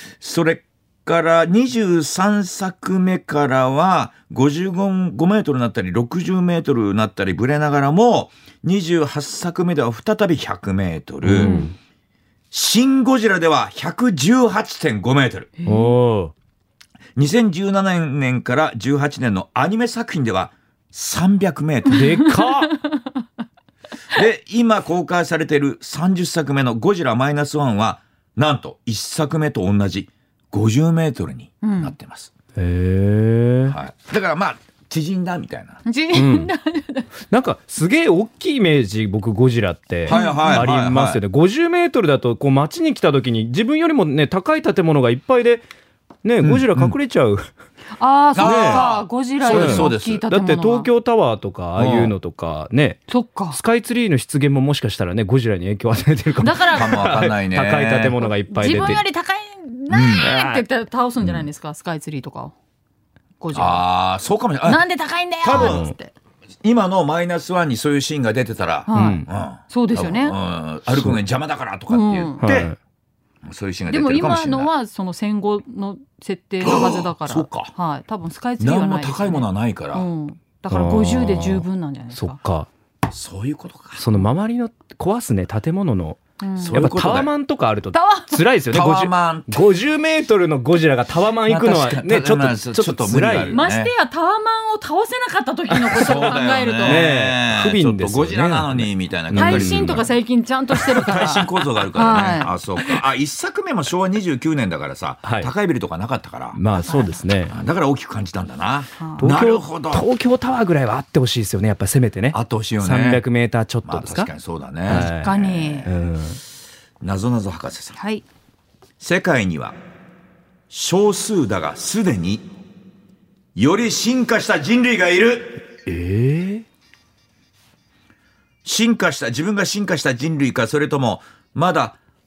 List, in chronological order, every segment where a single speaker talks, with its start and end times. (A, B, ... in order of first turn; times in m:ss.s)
0:00.2-0:11.6 A
0:11.2-0:11.7 B
0:11.4-0:11.7 C
0:12.5-0:15.5 A
0:15.6-0:15.9 C
0:15.6-0:16.3 B
0:17.2-0:22.2 A
0:21.9-0:22.8 B
0:22.2-0:23.0 C
0:24.1-0:32.3 A
0:31.6-0:31.9 C
0:32.6-0:33.7 B
0:33.7-0:35.8 A
0:35.8-0:37.1 C
0:36.1-0:36.5 B
0:37.3-0:45.6 B
0:40.1-0:40.6 C
0:40.1-0:41.2 A
0:46.2-0:47.4 B
0:46.4-0:47.0 A
0:48.0-0:50.9 C
0:48.3-0:50.2 A
0:48.4-0:48.8 B
0:49.5-0:59.0 B
0:51.8-0:52.1 A
0:53.1-0:53.6 C
0:56.4-0:57.3 C
0:56.7-0:58.2 A
0:58.2-1:02.5 C
0:59.9-1:00.4 A
1:00.3-1:00.6 B
1:03.4-1:03.8 C
1:03.5-1:04.8 A
1:04.6-1:06.1 C
1:05.4-1:05.9 A
1:05.5-1:05.9 B
1:06.6-1:12.7 A
1:08.9-1:10.4 C
1:08.9-1:09.3 B
1:10.9-1:11.2 B
1:11.9-1:12.5 C
1:12.4-1:12.8 B
1:13.4-1:14.7 A
1:13.9-1:22.4 C
1:16.6-1:17.7 A
1:18.6-1:20.1 A
1:20.7-1:22.7 B
1:23.1-1:24.2 A
1:24.0-1:33.6 B
1:26.4-1:26.8 C
1:26.6-1:27.3 A
1:27.9-1:28.4 C
1:28.7-1:29.6 A
1:31.4-1:33.9 A
1:33.5-1:37.0 C
1:35.8-1:40.1 B
1:35.9-1:40.1 A
1:39.3-1:42.5 C
1:40.7-1:41.4 B
1:41.0-1:46.6 A
1:45.2-1:45.5 B
1:46.5-1:47.5 B
1:46.8-1:47.1 C
1:47.5-1:50.1 A
1:49.0-1:49.3 C
1:49.2-1:54.3 B
1:52.3-1:53.2 A
1:53.8-1:55.9 A
1:54.9-1:56.4 B
1:54.9-1:55.9 C
1:57.0-1:58.0 A
1:57.9-1:58.2 C
1:59.0-1:59.8 A
2:00.7-2:02.4 A
2:03.5-2:05.6 A
2:05.8-2:06.6 B
2:08.6-2:12.0 A